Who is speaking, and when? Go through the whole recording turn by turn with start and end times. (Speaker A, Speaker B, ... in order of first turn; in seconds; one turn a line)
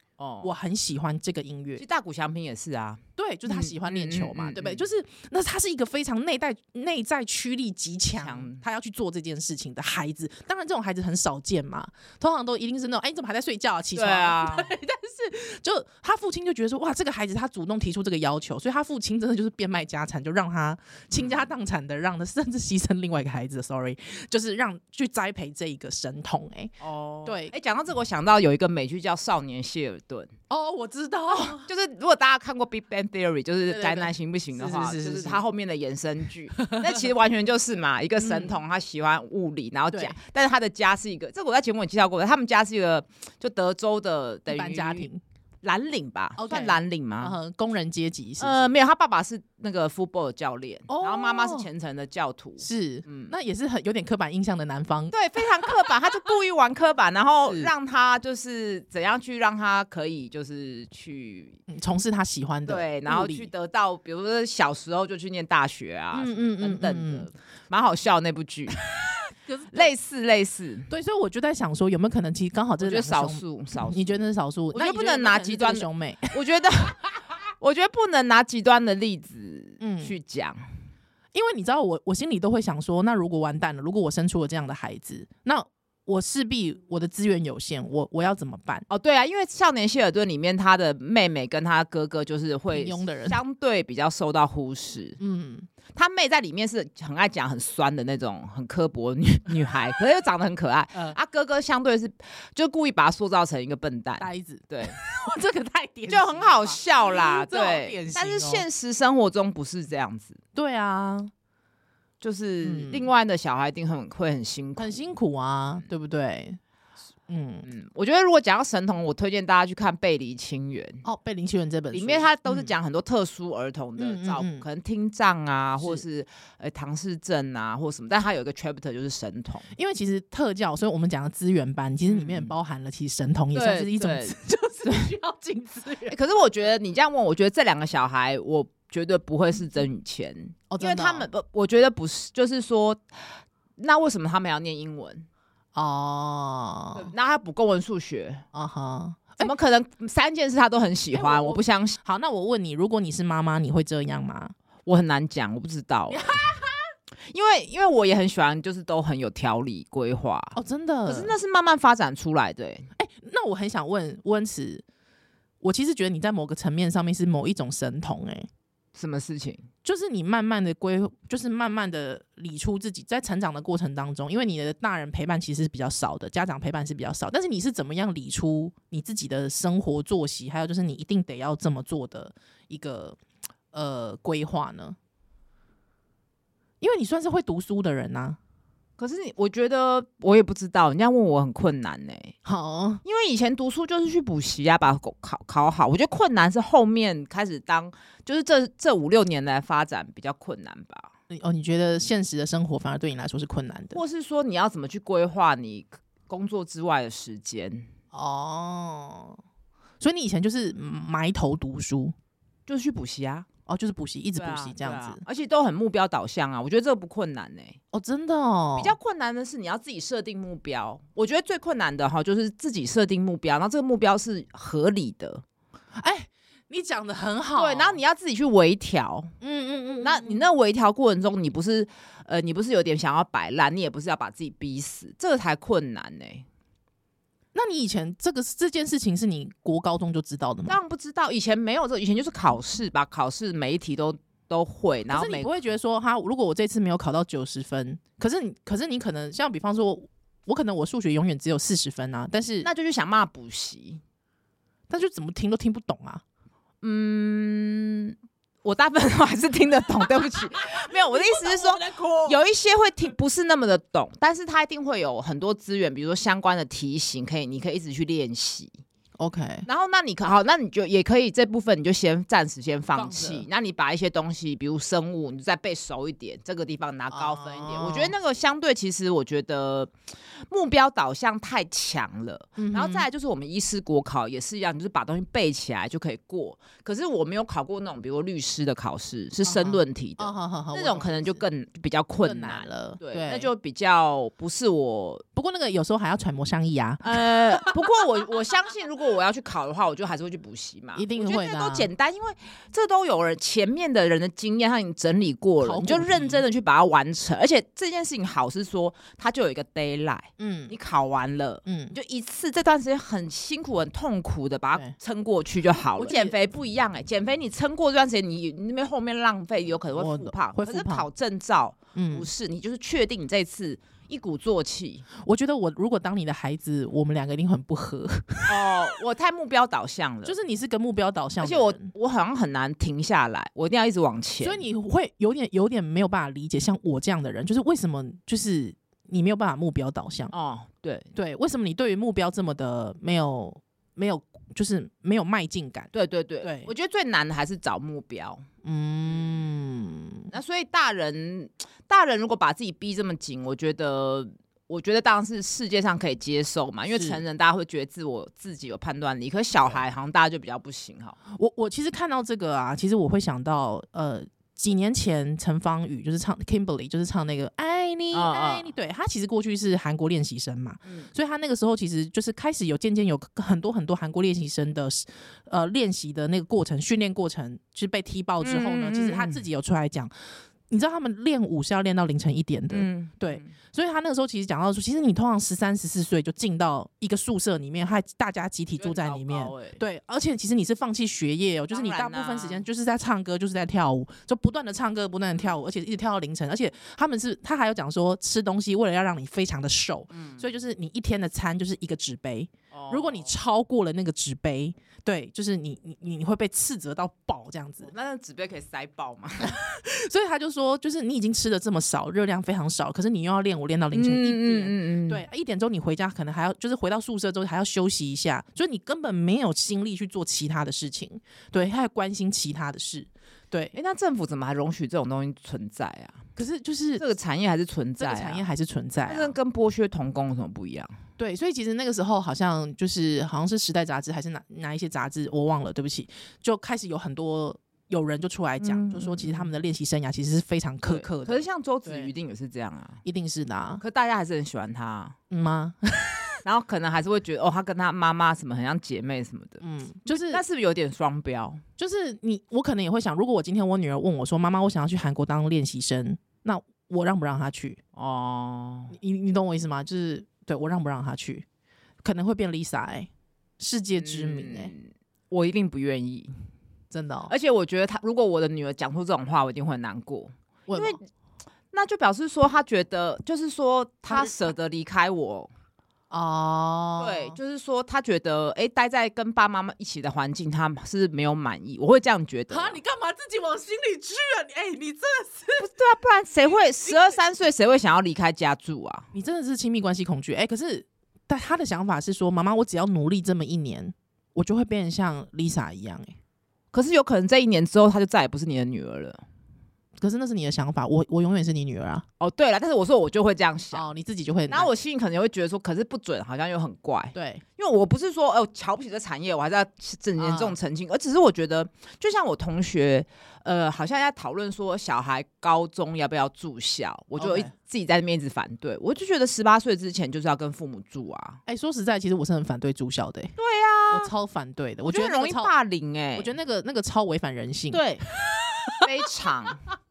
Speaker A: 0.2-0.5
Speaker B: 0.4-1.8
Speaker A: 1.8-4.8
Speaker B: 3.2-27.5
Speaker A: 8.2-8.6
Speaker A: 13.9-14.7
Speaker A: 21.1-21.5
Speaker A: 26.8-30.3
Speaker B: 30.5-31.7
Speaker A: 31.3-45.1
Speaker B: 33.7-35.4
Speaker B: 36.6-37.1
Speaker B: 38.2-38.6
Speaker B: 44.5-45.2
Speaker A: 45.6-47.4
Speaker B: 46.4-48.7
Speaker A: 48.4-53.3
Speaker B: 50.9-51.7
Speaker B: 52.6-55.9
Speaker A: 55.1-61.6
Speaker B: 57.5-57.7
Speaker B: 61.7-63.5
Speaker A: 62.7-68.8
Speaker B: 66.1-67.3
Speaker B: 69.5-69.9
Speaker A: 69.7-70.9
Speaker B: 70.9-76.4
Speaker A: 72.8-74.2
Speaker A: 74.7-80.6
Speaker B: 79.8-80.2
Speaker B: 81.3-88.9
Speaker A: 88.9-95.2
Speaker B: 92.7-93.4
Speaker B: 95.2-95.7
Speaker A: 95.9-105.0
Speaker B: 104.2-108.6
Speaker A: 106.1-110.4
Speaker B: 110.5-111.3
Speaker A: 112.2-115.1
Speaker B: 112.6-113.1
Speaker B: 114.8-116.6
Speaker B: 117.3-117.7
Speaker A: 117.6-121.0
Speaker B: 121.0-122.7
Speaker A: 121.9-129.7
Speaker B: 124.0-124.6
Speaker B: 129.8-136.2
Speaker A: 132.1-132.5
Speaker A: 133.5-135.0
Speaker A: 136.1-145.3
Speaker B: 140.7-141.3
Speaker B: 145.7-147.1
Speaker A: 146.9-148.4
Speaker B: 148.5-149.5
Speaker A: 149.4-152.0
Speaker B: 151.1-154.5
Speaker A: 154.9-156.4
Speaker B: 156.1-156.8
Speaker A: 157.3-162.9
Speaker B: 160.6-161.3
Speaker B: 163.0-164.8
Speaker B: 165.6-168.5
Speaker A: 168.9-169.7
Speaker B: 169.8-183.2
Speaker B: 183.7-185.0
Speaker B: 186.8-188.4
Speaker A: 189.0-192.3
Speaker B: 192.4-193.0
Speaker A: 193.0-201.1
Speaker B: 201.3-204.0
Speaker A: 203.9-207.9
Speaker B: 208.1-209.4
Speaker B: 210.0-212.1
Speaker A: 212.7-213.5
Speaker B: 213.7-215.2
Speaker A: 214.4-217.8
Speaker B: 217.9-219.0
Speaker A: 218.8-225.4
Speaker B: 226.0-228.0
Speaker A: 227.6-229.3
Speaker B: 229.4-230.4
Speaker A: 230.0-236.5
Speaker B: 237.6-240.8
Speaker A: 240.7-245.5
Speaker B: 245.1-252.7
Speaker A: 252.6-254.0
Speaker B: 254.9-256.2
Speaker A: 256.8-268.7
Speaker B: 260.6-262.4
Speaker B: 269.2-269.7
Speaker A: 269.7-295.2
Speaker B: 272.9-273.5
Speaker B: 277.1-278.1
Speaker B: 282.6-283.1
Speaker B: 289.4-291.4
Speaker B: 292.2-293.5
Speaker B: 295.3-297.8
Speaker A: 297.0-325.1
Speaker B: 300.9-301.9
Speaker B: 305.6-306.4
Speaker B: 310.4-310.7
Speaker B: 311.7-312.0
Speaker B: 315.9-316.4
Speaker B: 319.9-321.1
Speaker B: 321.9-322.3
Speaker B: 325.2-328.8
Speaker A: 328.5-330.4
Speaker B: 330.2-331.9
Speaker A: 331.4-334.7
Speaker B: 334.4-340.3
Speaker A: 340.3-341.1
Speaker B: 341.1-345.9
Speaker A: 345.9-348.5
Speaker B: 346.4-346.7
Speaker B: 348.6-350.3
Speaker A: 349.1-349.4
Speaker A: 350.3-361.2
Speaker B: 356.9-357.2
Speaker B: 361.3-380.1
Speaker A: 368.1-368.7
Speaker A: 370.9-371.1
Speaker A: 378.4-379.4
Speaker B: 380.7-407.9
Speaker A: 382.7-383.5
Speaker A: 388.8-389.8
Speaker A: 391.7-392.7
Speaker A: 400.1-400.4
Speaker A: 402.7-403.3
Speaker A: 407.8-409.5
Speaker B: 409.4-423.8
Speaker A: 413.9-415.2
Speaker A: 423.7-426.2
Speaker B: 426.4-427.0
Speaker A: 427.0-428.4
Speaker B: 428.0-429.4
Speaker A: 429.1-430.9
Speaker B: 431.2-442.1
Speaker A: 438.6-439.5
Speaker A: 440.9-443.0
Speaker B: 443.0-443.8
Speaker A: 443.8-445.1
Speaker B: 445.3-446.3
Speaker A: 446.4-451.6
Speaker B: 449.6-450.4
Speaker B: 451.8-457.8
Speaker A: 458.0-459.0
Speaker B: 458.9-461.4
Speaker B: 462.0-464.7
Speaker A: 464.0-466.3
Speaker B: 466.9-467.3
Speaker A: 467.3-471.0
Speaker B: 470.7-471.0
Speaker A: 471.7-475.5
Speaker B: 474.1-474.5
Speaker B: 476.1-477.4
Speaker A: 477.0-482.8
Speaker B: 482.5-485.7
Speaker A: 485.6-489.1
Speaker B: 486.8-487.2
Speaker B: 489.1-496.1
Speaker A: 496.7-499.2
Speaker B: 500.0-502.0
Speaker A: 502.2-503.9
Speaker B: 503.7-504.7
Speaker A: 504.5-521.4
Speaker B: 507.1-507.4
Speaker B: 510.2-510.6
Speaker B: 517.2-517.5
Speaker B: 521.5-523.3
Speaker A: 523.4-524.1
Speaker B: 523.9-525.5
Speaker A: 524.9-526.3
Speaker B: 526.2-528.9
Speaker A: 527.7-528.0
Speaker A: 528.8-529.6